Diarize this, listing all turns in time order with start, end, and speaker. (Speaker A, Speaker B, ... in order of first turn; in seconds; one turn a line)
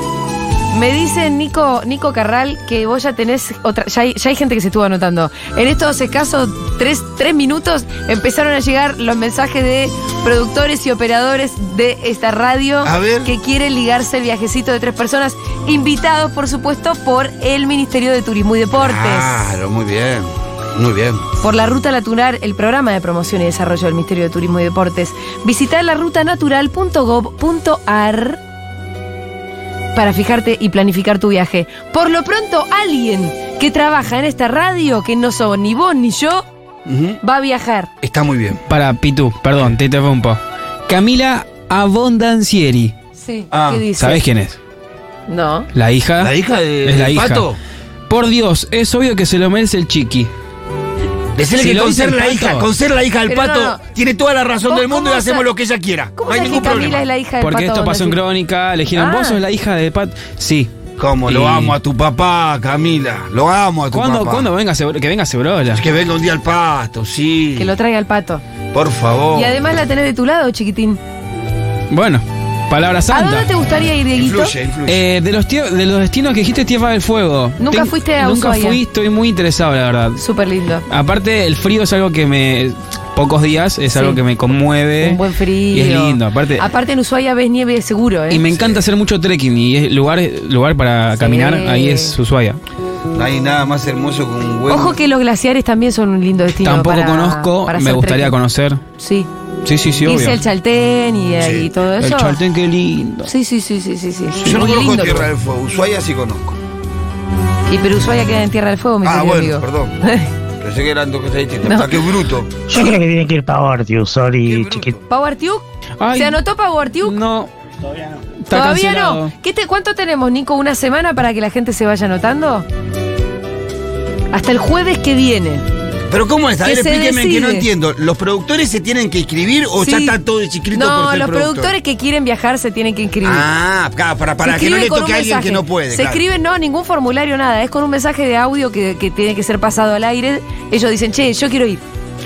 Speaker A: 0.7-19.3
Speaker B: 12.8-13.3
Speaker B: 18.8-21.2
Speaker A: 21.4-28.4
Speaker A: 29.9-36.4
Speaker B: 36.9-37.2
Speaker A: 37.2-37.9
Speaker B: 38.0-38.6
Speaker C: 38.7-42.9
Speaker A: 43.1-44.2
Speaker B: 43.5-43.8
Speaker C: 43.9-44.6
Speaker A: 45.3-45.7
Speaker C: 45.7-47.5
Speaker B: 46.2-47.6
Speaker C: 48.1-50.3
Speaker B: 51.4-57.0
Speaker C: 51.5-52.7
Speaker A: 53.3-53.8
Speaker A: 54.6-55.5
Speaker A: 56.1-58.2
Speaker C: 57.4-60.7
Speaker A: 58.9-59.4
Speaker B: 61.0-64.4
Speaker C: 61.3-61.8
Speaker C: 63.9-65.8
Speaker B: 65.7-67.7
Speaker A: 67.6-68.4
Speaker B: 68.7-69.5
Speaker A: 69.3-71.0
Speaker C: 71.9-73.5
Speaker A: 73.1-74.5
Speaker B: 74.2-75.0
Speaker C: 74.8-80.2
Speaker A: 77.6-78.8
Speaker A: 80.2-80.8
Speaker C: 80.9-85.2
Speaker A: 83.9-84.2
Speaker A: 85.0-88.4
Speaker C: 85.7-86.6
Speaker C: 88.3-92.6
Speaker A: 91.1-92.1
Speaker B: 93.1-95.0
Speaker A: 94.7-98.3
Speaker C: 96.6-98.8
Speaker A: 99.0-99.3
Speaker C: 99.6-100.4
Speaker A: 100.0-102.4
Speaker B: 101.4-101.7
Speaker C: 102.0-103.3
Speaker A: 103.2-105.3
Speaker B: 104.4-106.5
Speaker A: 107.7-110.3
Speaker B: 109.0-109.9
Speaker B: 110.6-112.5
Speaker A: 111.6-112.0
Speaker D: 112.7-114.9
Speaker B: 114.5-115.0
Speaker A: 115.1-117.2
Speaker C: 116.0-116.4
Speaker C: 117.0-117.5
Speaker C: 118.4-119.3
Speaker A: 118.5-122.7
Speaker A: 124.3-125.7
Speaker B: 126.1-131.7
Speaker A: 126.6-127.7
Speaker A: 129.8-130.1
Speaker A: 130.7-133.5
Speaker B: 133.2-136.2
Speaker A: 134.4-141.8